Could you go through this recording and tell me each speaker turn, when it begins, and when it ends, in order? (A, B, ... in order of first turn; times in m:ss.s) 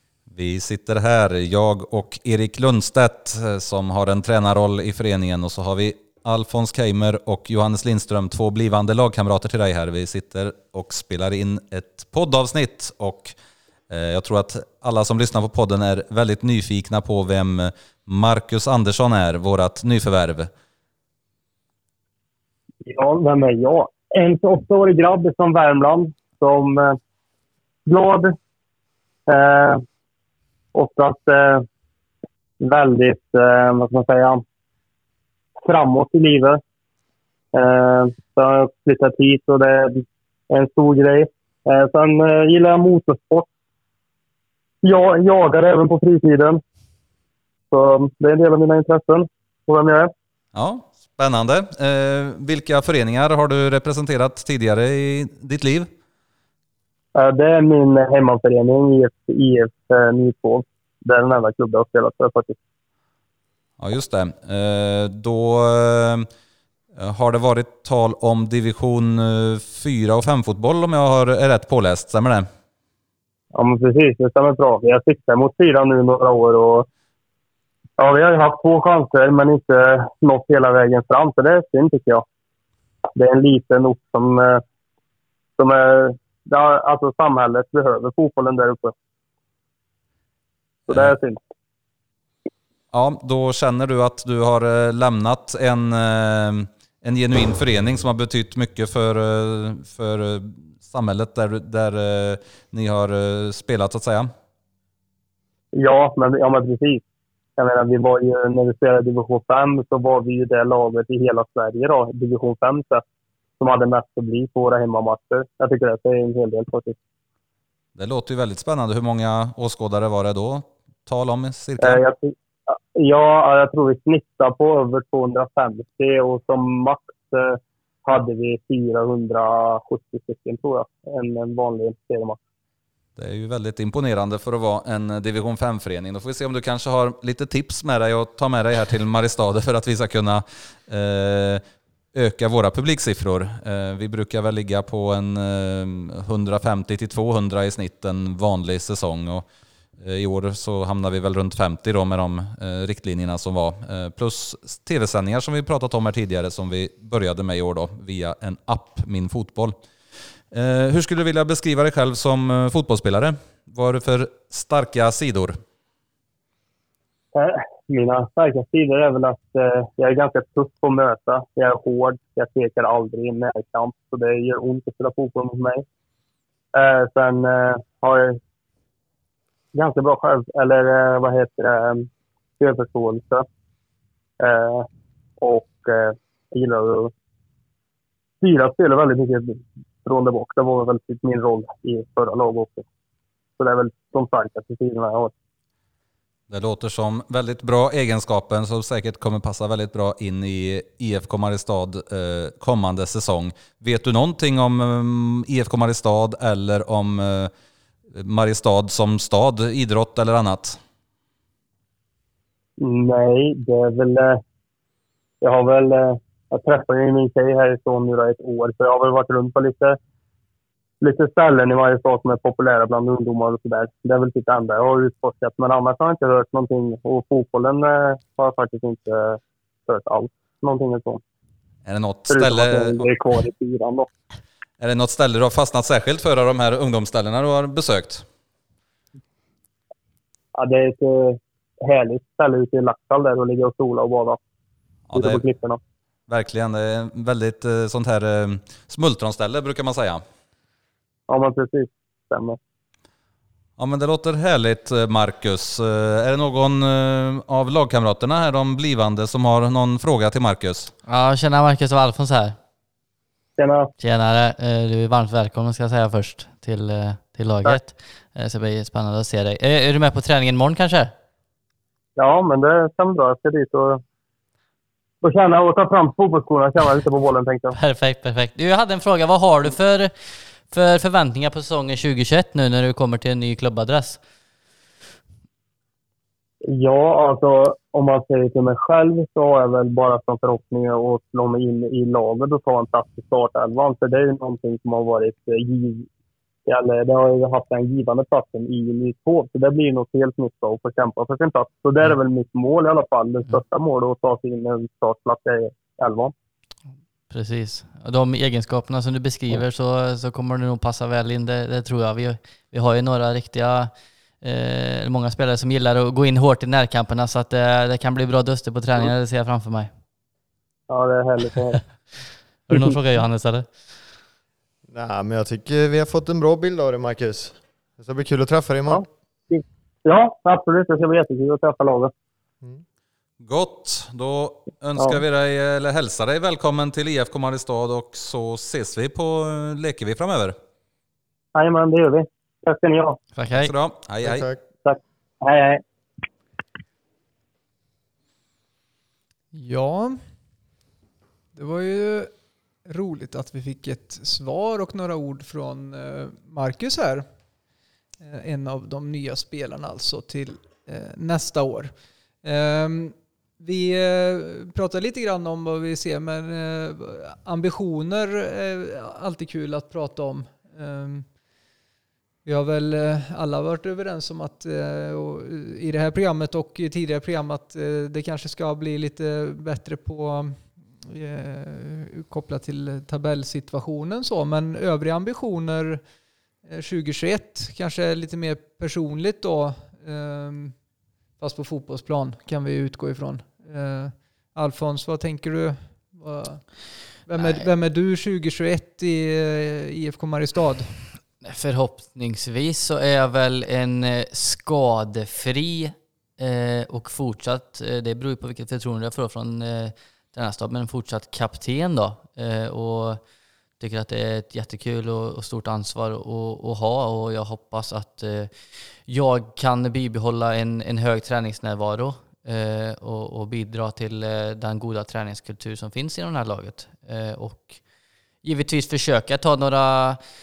0:00.3-0:13.3 A
0:13.9-0:20.5 A
0:22.8-0:27.0 B
0:27.8-0:28.3 B
0:29.3-0:29.8 B
0:30.7-0:31.6 B
0:32.6-0:34.4 B
0:35.6-0:36.6 B
0:37.5-0:43.5 B
0:44.8-0:46.6 B
0:47.7-0:50.1 B
0:50.5-0:55.9 A
0:57.1-1:02.6 B
1:03.8-1:06.3 A
1:06.9-1:12.4 A
1:13.5-1:16.8 B
1:18.0-1:22.2 B
1:23.2-1:24.6 B
1:25.6-1:28.9 B
1:30.9-1:31.2 A
1:30.9-1:31.4 B
1:32.9-1:44.3 A
1:45.7-1:47.0 B
1:47.6-1:53.0 B
1:53.6-1:57.0 B
1:58.0-2:02.0 A
2:01.8-2:12.4 B
2:13.2-2:21.6 A
2:22.1-2:29.4 A
2:30.0-2:39.8 A
2:40.5-2:45.6 A
2:47.3-2:55.8 B
2:56.7-2:58.4 B
2:59.7-3:03.4 B
3:04.4-3:04.9 B
3:05.4-3:07.1 B
3:08.4-3:12.8 B
3:13.6-3:15.3 B
3:16.5-3:27.5 A
3:28.1-3:30.8 A
3:32.8-3:34.4 B
3:35.4-3:40.0 B
3:41.0-3:51.2 B
3:51.8-3:53.0 A
3:52.3-3:54.1 B
3:54.8-3:58.2 A
4:00.5-4:04.4 B
4:05.1-4:05.4 A
4:05.1-4:05.8 B
4:06.3-4:10.2 A
4:11.3-4:12.6 B
4:13.8-4:20.9 A
4:21.0-4:22.6 C
4:23.6-4:23.9 B
4:24.0-4:31.1 C
4:32.2-4:34.0 B
4:35.2-4:37.8 B
4:37.7-4:44.2 C
4:46.6-4:56.1 B
4:56.6-5:06.3 B
5:07.3-5:13.9 C
5:14.4-5:19.9 C
5:20.9-5:21.8 B
5:22.7-5:23.9 C
5:24.9-5:29.0 D
5:28.9-5:32.1 B
5:33.4-5:40.6 A
5:41.5-5:43.2 B
5:43.3-5:43.7 C
5:43.5-5:44.4 A
5:44.2-5:44.6 D
5:44.8-5:45.8 B
5:49.5-5:50.2 E
5:51.5-5:52.3 E
5:52.8-5:57.2 E
5:58.2-6:01.9 E
6:02.4-6:11.3 E
6:12.4-6:26.0 E
6:26.6-6:30.7 E
6:31.4-6:40.9 E
6:41.4-6:53.2 C
6:53.8-7:07.8 C
7:08.4-7:10.2 C